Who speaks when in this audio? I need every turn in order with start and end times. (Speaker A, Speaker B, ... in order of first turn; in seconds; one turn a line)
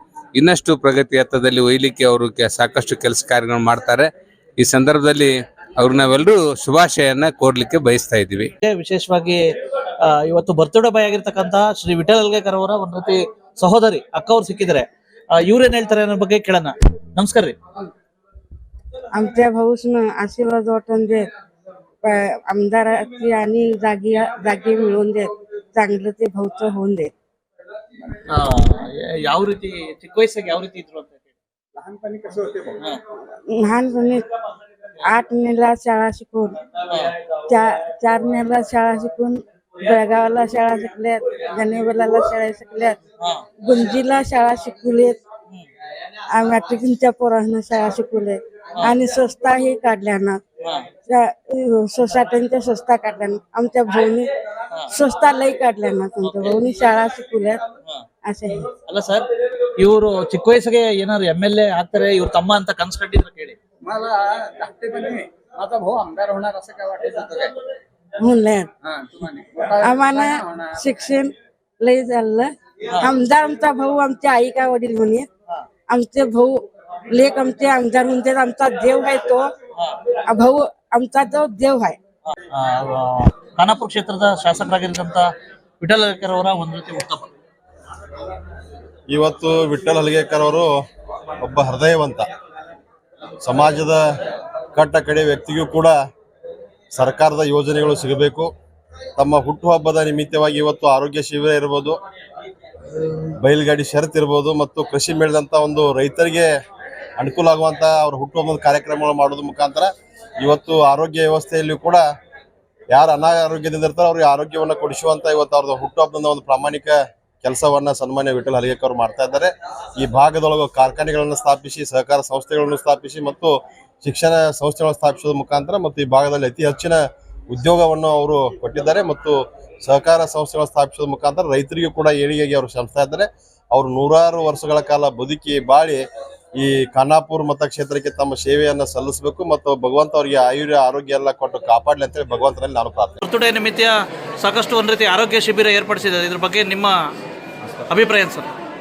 Speaker A: 0.3-8.5
Speaker B: 8.6-9.4
Speaker B: 10.0-17.6
Speaker C: 19.1-21.2
Speaker C: 22.0-27.1
Speaker B: 28.3-31.2
Speaker C: 33.5-34.2
Speaker C: 35.1-36.6
Speaker B: 36.9-37.1
Speaker C: 37.5-43.0
Speaker B: 43.2-43.4
Speaker C: 43.6-45.2
Speaker C: 46.3-50.4
Speaker B: 50.6-50.9
Speaker C: 51.1-54.3
Speaker C: 54.9-57.6
Speaker B: 56.2-56.6
Speaker C: 58.2-58.7
Speaker B: 58.9-59.3
Speaker B: 59.8-63.6
Speaker D: 63.9-67.5
Speaker C: 68.2-68.7
Speaker C: 69.8-75.3
Speaker C: 75.9-79.5
Speaker C: 80.3-82.0
Speaker B: 82.2-85.3
Speaker B: 85.8-87.3
Speaker E: 89.1-90.7
Speaker E: 91.4-92.3
Speaker E: 93.4-94.0
Speaker E: 94.7-96.0
Speaker E: 96.9-98.5
Speaker E: 99.2-102.0
Speaker E: 103.4-106.5
Speaker E: 107.2-109.9
Speaker E: 110.4-112.0
Speaker E: 112.9-143.2
Speaker B: 143.2-147.0
Speaker B: 147.9-148.5